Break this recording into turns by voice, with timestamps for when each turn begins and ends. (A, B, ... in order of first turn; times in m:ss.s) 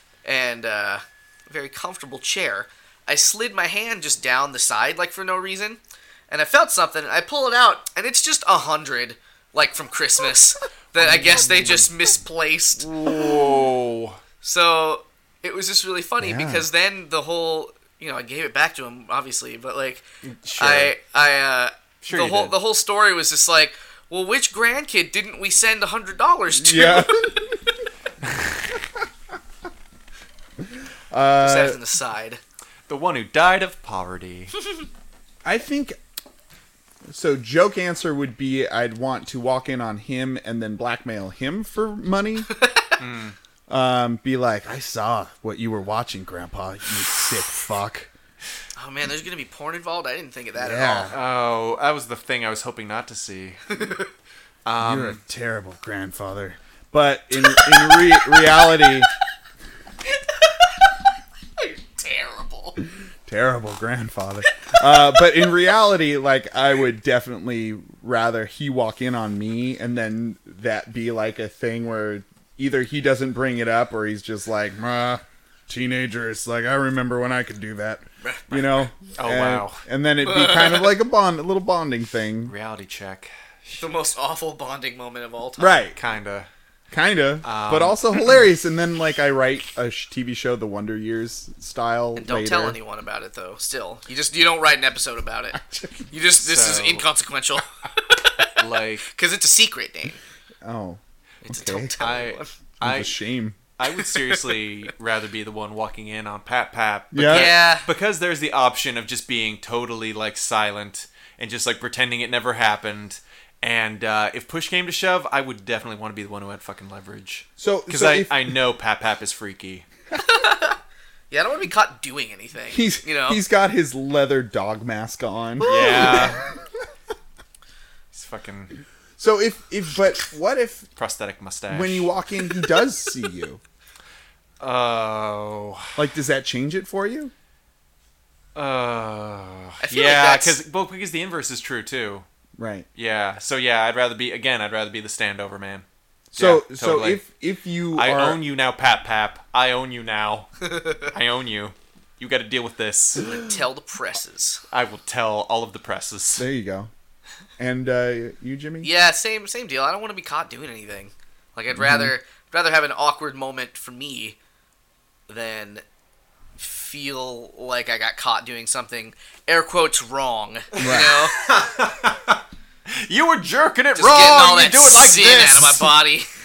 0:00.2-0:12.9 A
0:11.0-0:11.8 B
0:11.1-0:11.7 C
0:12.8-0:14.2 B
0:14.4-0:20.0 A
0:16.2-0:16.6 C
0:20.2-0:20.9 B
0:20.6-0:27.5 A
0:22.0-0:22.5 B
0:26.5-0:27.6 C
0:31.1-0:31.8 C
0:31.4-0:32.4 A
0:32.9-0:34.5 B
0:35.4-0:36.0 C
0:37.1-0:42.5 C
0:43.0-0:43.4 B
0:43.7-0:48.1 C
0:48.8-0:51.1 A
0:50.6-0:51.2 C
0:51.1-0:53.8 B
0:53.7-0:54.1 A
0:54.6-0:55.2 B
0:54.8-0:59.1 C
0:57.4-0:58.9 A
1:00.1-1:00.9 A
1:01.6-1:02.8 A
1:03.3-1:22.5 C
1:18.2-1:18.9 A
1:19.2-1:19.8 B
1:20.2-1:20.9 A
1:22.4-1:23.9 B
1:23.8-1:25.8 A
1:25.6-1:26.0 C
1:25.9-1:26.5 B
1:26.9-1:32.8 C
1:27.4-1:28.0 B
1:32.2-1:35.6 A
1:35.5-1:36.1 C
1:36.1-1:40.2 A
1:36.3-1:37.0 B
1:38.6-1:39.1 B
1:40.6-1:41.9 C
1:41.4-1:42.5 A
1:41.9-1:43.2 B
1:42.8-1:43.6 C
1:43.8-1:59.8 B
1:43.9-1:44.5 A
1:47.1-1:47.5 C
1:47.3-1:47.9 A
1:57.6-1:58.5 C
2:00.2-2:00.8 A
2:01.3-2:03.4 A
2:02.7-2:06.6 C
2:05.6-2:06.4 B
2:05.6-2:06.4 A
2:08.1-2:08.7 B
2:09.2-2:10.9 C
2:11.0-2:12.1 B
2:11.7-2:13.6 C
2:14.6-2:16.0 B
2:16.0-2:17.3 C
2:18.5-2:22.2 B
2:19.8-2:20.6 A
2:22.6-2:22.9 C
2:22.9-2:27.2 B
2:26.3-2:28.4 C
2:27.9-2:33.3 B
2:33.2-2:34.6 A
2:34.7-2:36.4 B
2:36.4-2:36.9 C
2:37.6-2:38.9 C
2:38.8-2:44.4 A
2:41.7-2:42.1 C
2:45.3-2:45.8 A
2:46.6-2:51.4 A
2:50.7-2:55.9 B
2:50.8-2:51.2 C
2:54.0-2:56.3 A